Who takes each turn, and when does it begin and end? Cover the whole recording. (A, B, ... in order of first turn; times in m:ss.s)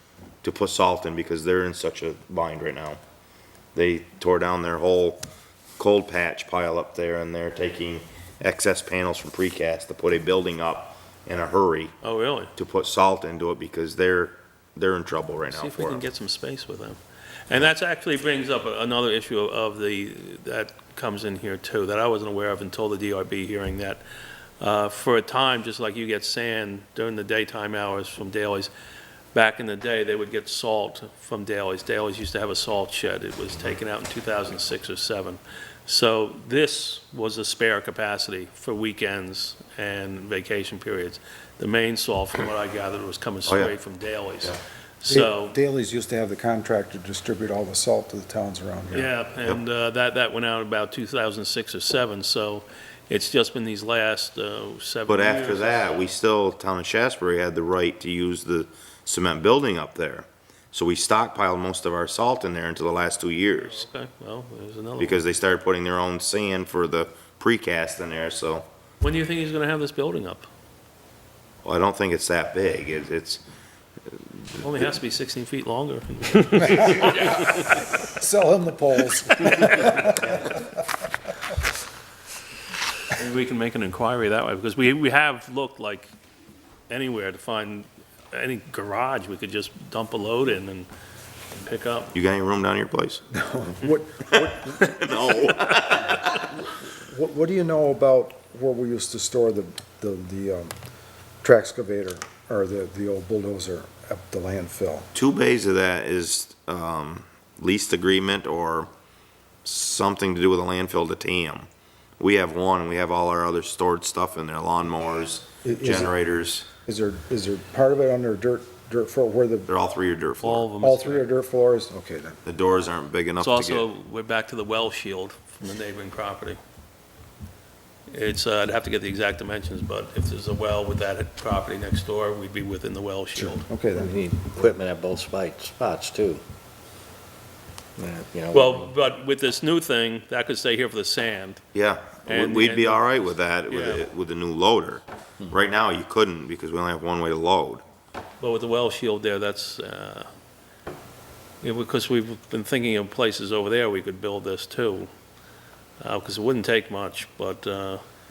0:00.4-0:03.0 A
0:03.8-0:05.2 A
0:05.8-0:12.0 A
0:12.0-0:12.5 B
0:12.6-0:16.0 A
0:15.5-0:24.0 B
0:24.6-0:28.7 B
0:29.3-0:45.6 B
0:43.5-0:43.8 A
0:45.1-0:49.1 C
0:48.9-0:56.0 B
0:55.1-1:03.8 A
1:03.6-1:05.2 B
1:05.0-1:08.7 A
1:09.0-1:10.5 B
1:11.6-1:13.4 A
1:14.1-1:14.7 A
1:14.6-1:17.4 B
1:16.9-1:20.5 C
1:23.1-1:26.1 B
1:26.9-1:30.9 B
1:31.5-1:32.2 B
1:32.2-1:33.2 A
1:33.3-1:35.0 C
1:34.7-1:36.4 A
1:36.2-1:40.7 C
1:41.4-1:45.1 C
1:45.1-1:48.9 A
1:49.6-1:51.7 A
1:52.2-1:56.7 A
1:55.6-1:56.1 C
1:56.9-1:59.7 C
1:59.7-2:00.7 A
2:00.4-2:01.3 B
2:00.8-2:02.4 C
2:02.4-2:03.9 A
2:03.4-2:06.6 B
2:08.1-2:13.7 B
2:13.4-2:14.2 C
2:13.9-2:16.4 D
2:18.0-2:18.9 D
2:18.5-2:21.6 B
2:21.8-2:27.8 A
2:22.2-2:24.0 B
2:28.4-2:30.3 B
2:31.6-2:35.1 B
2:36.0-2:38.0 B